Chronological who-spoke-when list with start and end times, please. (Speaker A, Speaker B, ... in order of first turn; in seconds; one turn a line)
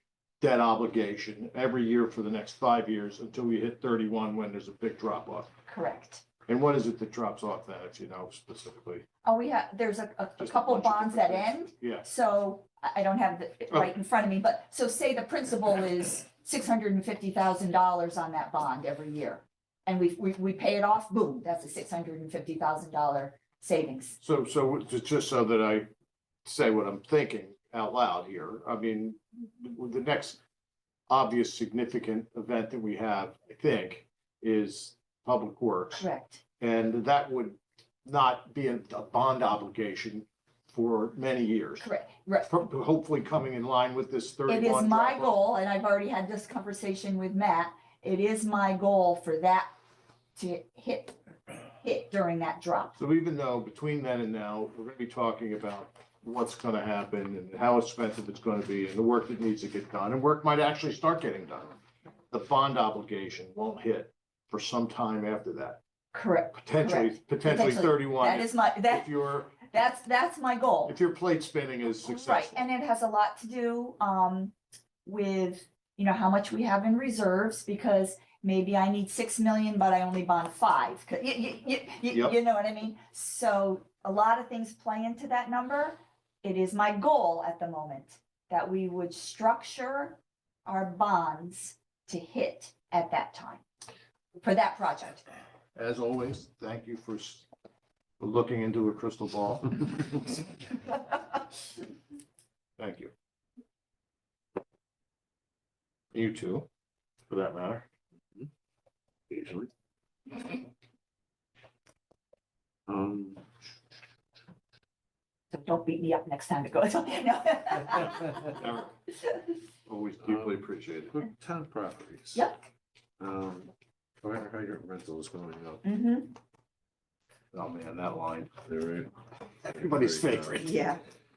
Speaker A: 0.4-5.5
Speaker B: 5.7-6.2
Speaker A: 6.5-9.0
Speaker B: 9.2-24.2
Speaker A: 10.4-12.1
Speaker A: 24.2-25.9
Speaker A: 26.4-30.4
Speaker A: 31.1-36.1
Speaker B: 36.0-36.4
Speaker A: 36.6-41.9
Speaker B: 41.8-42.5
Speaker A: 42.5-45.4
Speaker B: 44.5-49.7
Speaker B: 50.4-51.1
Speaker B: 51.7-53.0
Speaker A: 53.0-61.8
Speaker A: 62.3-65.8
Speaker B: 66.1-70.9
Speaker A: 66.6-69.6
Speaker A: 70.8-72.6
Speaker B: 72.0-74.5
Speaker B: 75.0-93.6
Speaker A: 82.1-82.3
Speaker B: 94.3-95.2
Speaker A: 95.8-97.5
Speaker A: 98.2-100.3
Speaker A: 102.8-103.1
Speaker A: 106.1-106.7
Speaker A: 107.3-107.8
Speaker C: 109.3-109.7
Speaker C: 112.9-113.4
Speaker B: 115.5-118.6
Speaker A: 118.4-118.9
Speaker A: 119.9-121.2
Speaker C: 120.2-120.6
Speaker C: 121.1-122.5
Speaker C: 123.2-125.8
Speaker B: 125.8-126.3
Speaker A: 127.5-128.5
Speaker C: 128.6-129.1
Speaker C: 129.6-130.7
Speaker A: 129.7-130.8
Speaker B: 130.6-131.0